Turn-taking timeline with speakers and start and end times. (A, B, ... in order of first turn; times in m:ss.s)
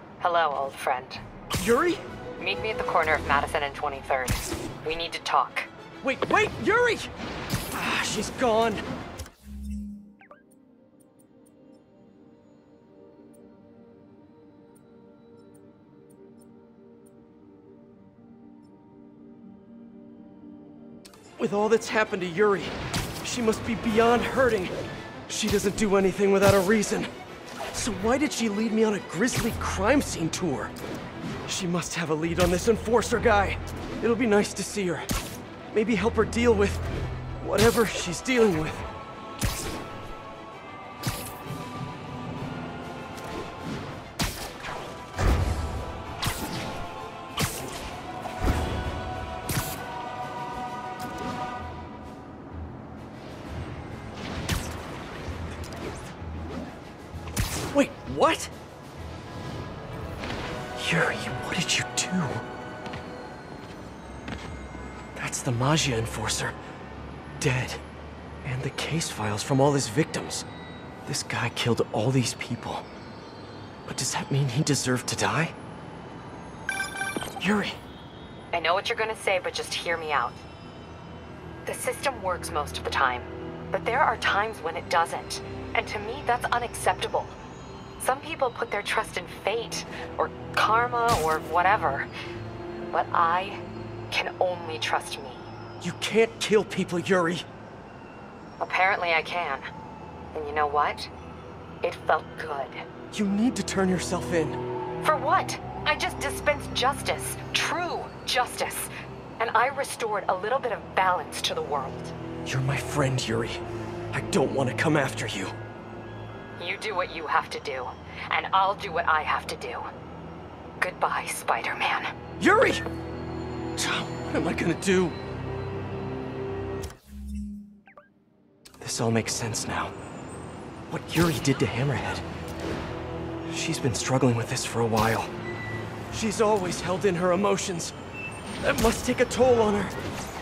0:00.2-0:01.2 A
0:01.6-0:02.0 B
0:02.4-0:05.7 A
0:06.0-0:07.1 B
0:07.7-0:08.8 B
0:21.4-0:24.8 B
0:25.3-0:27.1 B
0:27.7-0:30.7 B
0:31.5-0:35.1 B
0:35.7-0:36.8 B
0:37.4-0:38.9 B
0:57.7-0:58.5 B
1:00.8-1:02.4 B
1:05.2-1:06.6 B
1:07.4-1:07.8 B
1:08.4-1:10.5 B
1:11.1-1:12.9 B
1:13.9-1:15.6 B
1:17.4-1:17.8 B
1:18.5-1:20.4 A
1:21.7-1:27.4 A
1:28.0-1:32.1 A
1:32.9-1:35.5 A
1:35.8-1:37.4 B
1:38.6-1:39.6 A
1:40.3-1:41.1 A
1:41.8-1:42.8 A
1:43.1-1:44.6 B
1:45.0-1:52.1 A
1:52.5-1:53.6 B
1:54.1-1:55.6 B
1:56.6-1:59.9 A
2:00.8-2:02.1 A
2:02.4-2:02.8 B
2:03.8-2:05.2 B
2:08.8-2:09.9 B
2:10.9-2:12.3 B
2:13.5-2:15.3 B
2:16.1-2:18.0 B
2:18.6-2:20.0 B